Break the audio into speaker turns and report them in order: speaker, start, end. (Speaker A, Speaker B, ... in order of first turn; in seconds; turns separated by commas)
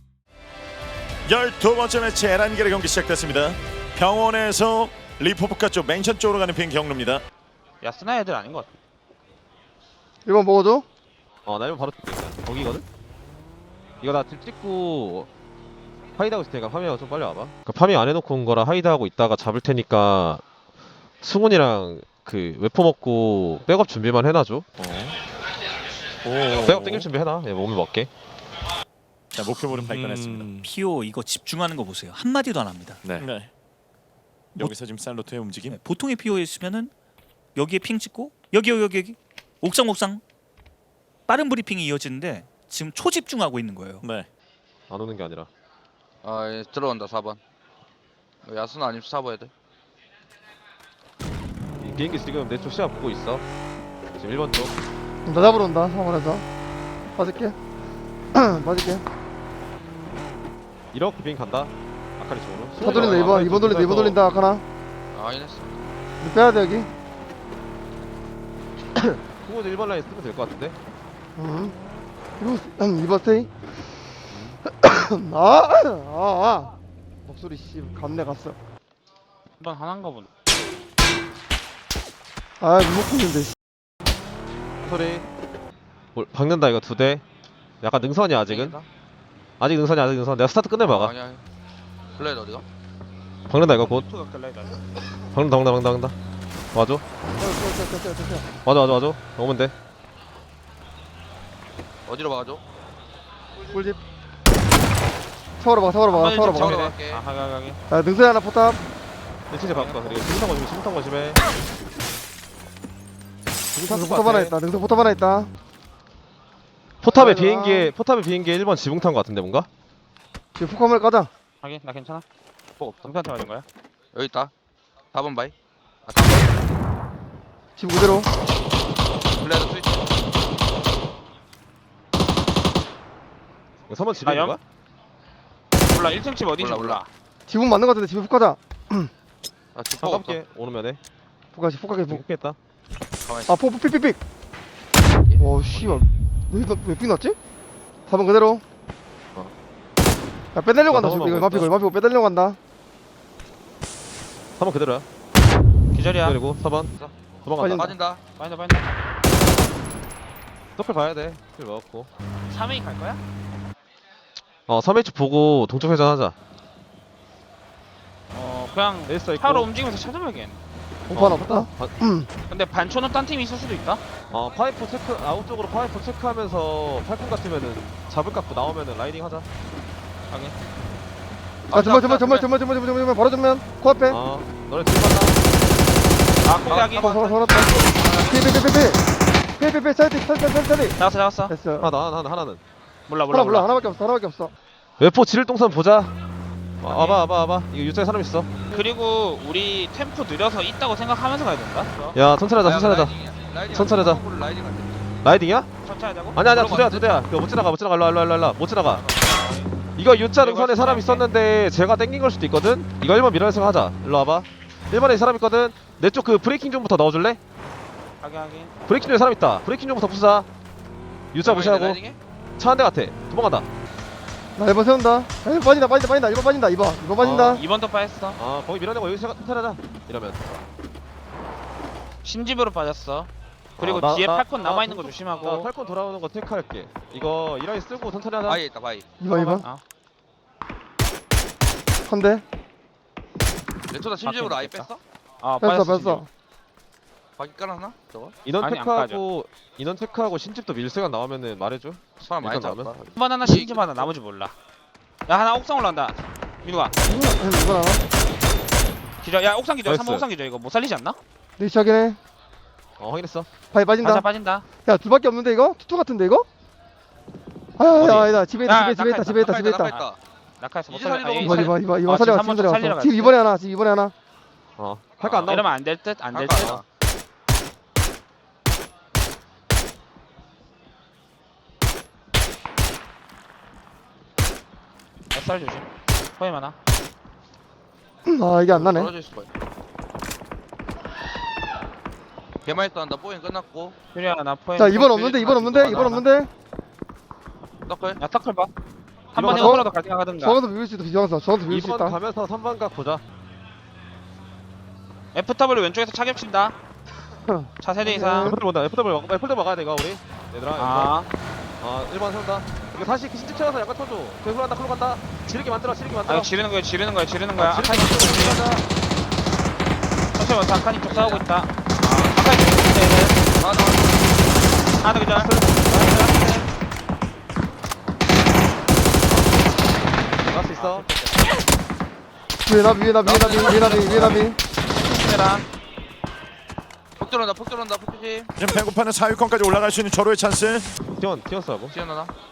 Speaker A: 1.3-7.2, Speaker B: 7.8-8.7, Speaker C: 10.2-10.8, Speaker D: 11.4-12.8, Speaker D: 14.0-15.3, Speaker D: 16.2-20.4, Speaker D: 21.2-24.9, Speaker D: 26.4-28.1, Speaker A: 26.5-27.1, Speaker A: 29.3-30.6, Speaker E: 29.7-33.2, Speaker A: 33.0-33.5, Speaker A: 34.6-35.8, Speaker E: 35.6-36.9, Speaker E: 37.5-40.2, Speaker E: 41.3-44.0, Speaker A: 44.0-44.3, Speaker D: 44.9-45.5, Speaker F: 46.2-47.4, Speaker F: 48.4-49.5, Speaker D: 51.8-53.4, Speaker D: 54.1-54.8, Speaker C: 55.2-56.4, Speaker C: 57.1-57.5, Speaker C: 58.3-59.0, Speaker D: 60.9-64.2, Speaker C: 62.8-64.6, Speaker F: 65.1-65.7, Speaker C: 66.2-66.9, Speaker D: 69.0-70.8, Speaker C: 71.3-71.8, Speaker C: 72.4-73.5, Speaker C: 74.6-76.7, Speaker C: 77.3-78.5, Speaker B: 79.6-80.3, Speaker C: 82.6-83.5, Speaker D: 84.8-85.2, Speaker D: 86.1-87.2, Speaker D: 87.8-88.8, Speaker F: 88.5-88.8, Speaker D: 89.6-91.1, Speaker F: 90.8-91.4, Speaker F: 92.2-92.6, Speaker D: 93.5-94.1, Speaker B: 93.8-94.8, Speaker D: 95.3-96.1, Speaker D: 96.7-97.0, Speaker C: 97.4-98.5, Speaker D: 98.6-99.7, Speaker F: 102.1-102.6, Speaker C: 103.6-104.0, Speaker C: 105.6-106.8, Speaker B: 106.1-107.8, Speaker F: 106.4-107.2, Speaker C: 107.9-108.8, Speaker D: 109.5-111.4, Speaker B: 109.7-110.2, Speaker D: 113.7-114.5, Speaker C: 113.9-115.5, Speaker D: 117.0-119.7, Speaker C: 117.1-117.9, Speaker C: 120.5-121.3, Speaker B: 121.6-122.2, Speaker F: 122.8-123.1, Speaker B: 123.0-123.6, Speaker F: 124.1-124.5, Speaker F: 125.1-125.5, Speaker F: 126.1-126.5, Speaker C: 127.8-128.3, Speaker F: 129.4-130.1, Speaker D: 133.9-134.6, Speaker B: 134.2-134.6, Speaker B: 135.8-137.1, Speaker F: 136.6-137.0, Speaker C: 137.5-139.1, Speaker F: 139.7-140.4, Speaker D: 140.0-141.0, Speaker C: 141.5-142.2, Speaker D: 142.1-142.6, Speaker F: 143.2-143.6, Speaker C: 143.5-144.2, Speaker F: 145.2-145.8, Speaker C: 145.4-147.3, Speaker C: 148.1-148.6, Speaker C: 150.5-152.6, Speaker D: 150.9-151.7, Speaker D: 154.6-155.1, Speaker B: 155.9-156.4, Speaker D: 156.2-156.9, Speaker F: 156.9-158.2, Speaker D: 157.4-157.9, Speaker C: 157.6-157.9, Speaker B: 158.4-158.9, Speaker D: 160.8-162.1, Speaker B: 162.5-163.2, Speaker D: 164.7-166.3, Speaker B: 168.3-170.6, Speaker D: 169.1-169.7, Speaker D: 171.1-171.9, Speaker C: 171.1-172.3, Speaker B: 172.5-174.0, Speaker D: 174.3-179.5, Speaker B: 180.3-180.5, Speaker F: 181.7-182.4, Speaker C: 181.7-184.2, Speaker D: 184.1-185.4, Speaker B: 186.4-187.9, Speaker D: 186.7-186.9, Speaker C: 186.9-189.0, Speaker C: 189.6-191.0, Speaker B: 191.0-191.5, Speaker C: 191.5-191.9, Speaker D: 191.8-192.6, Speaker B: 193.1-193.7, Speaker C: 193.3-194.5, Speaker D: 195.0-196.1, Speaker D: 196.8-198.5, Speaker B: 196.9-197.2, Speaker B: 198.7-202.2, Speaker D: 202.1-203.1, Speaker F: 202.6-205.0, Speaker D: 203.7-204.2, Speaker D: 205.2-205.7, Speaker B: 205.8-206.4, Speaker D: 206.3-209.0, Speaker F: 206.5-207.2, Speaker B: 208.8-209.7, Speaker D: 210.0-217.4, Speaker B: 210.4-211.3, Speaker B: 218.2-218.7, Speaker D: 218.9-220.5, Speaker D: 221.3-222.0, Speaker F: 221.4-222.2, Speaker D: 222.6-223.7, Speaker C: 224.6-227.6, Speaker D: 227.2-227.6, Speaker B: 227.5-228.4, Speaker D: 228.3-230.6, Speaker B: 232.2-235.7, Speaker D: 233.8-238.6, Speaker F: 238.4-239.1, Speaker C: 239.2-239.7, Speaker B: 239.3-239.8, Speaker C: 242.1-242.4, Speaker F: 243.9-245.0, Speaker B: 244.2-244.9, Speaker B: 245.4-246.2, Speaker C: 245.6-246.3, Speaker F: 247.4-248.3, Speaker D: 248.4-253.0, Speaker B: 248.6-249.2, Speaker F: 252.2-254.1, Speaker B: 253.1-254.5, Speaker B: 255.3-256.9, Speaker C: 257.0-258.0, Speaker B: 259.2-261.2, Speaker D: 259.9-260.2, Speaker C: 261.6-262.2, Speaker D: 263.0-263.5, Speaker C: 263.7-264.2, Speaker B: 264.0-264.6, Speaker C: 264.8-266.4, Speaker C: 267.8-269.9, Speaker D: 268.0-268.3, Speaker B: 268.6-270.0, Speaker F: 269.4-270.2, Speaker B: 270.6-273.3, Speaker F: 270.9-271.7, Speaker C: 271.4-274.1, Speaker D: 274.8-275.7, Speaker B: 275.2-276.8, Speaker F: 276.3-276.8, Speaker B: 285.3-286.8, Speaker C: 288.2-289.1, Speaker F: 288.7-289.5, Speaker F: 292.6-293.9, Speaker B: 294.1-296.2, Speaker C: 294.8-296.5, Speaker F: 295.0-295.8, Speaker F: 297.9-298.2, Speaker B: 298.2-298.7, Speaker B: 299.3-300.6, Speaker D: 299.4-299.8, Speaker C: 299.4-302.2, Speaker D: 301.7-303.2, Speaker B: 305.3-306.8, Speaker C: 307.4-308.6, Speaker B: 307.8-308.5, Speaker D: 308.4-311.2, Speaker B: 310.8-311.3, Speaker D: 311.8-316.5, Speaker B: 316.2-318.6, Speaker D: 317.6-318.8, Speaker B: 320.3-323.4, Speaker F: 321.1-321.4, Speaker F: 323.6-324.3, Speaker B: 325.0-326.7, Speaker D: 325.3-326.2, Speaker D: 330.4-331.1, Speaker B: 330.7-331.5, Speaker C: 332.6-334.6, Speaker F: 333.2-334.4, Speaker B: 335.0-335.7, Speaker F: 337.2-338.5, Speaker A: 338.6-340.9, Speaker D: 341.1-341.9, Speaker F: 341.9-342.3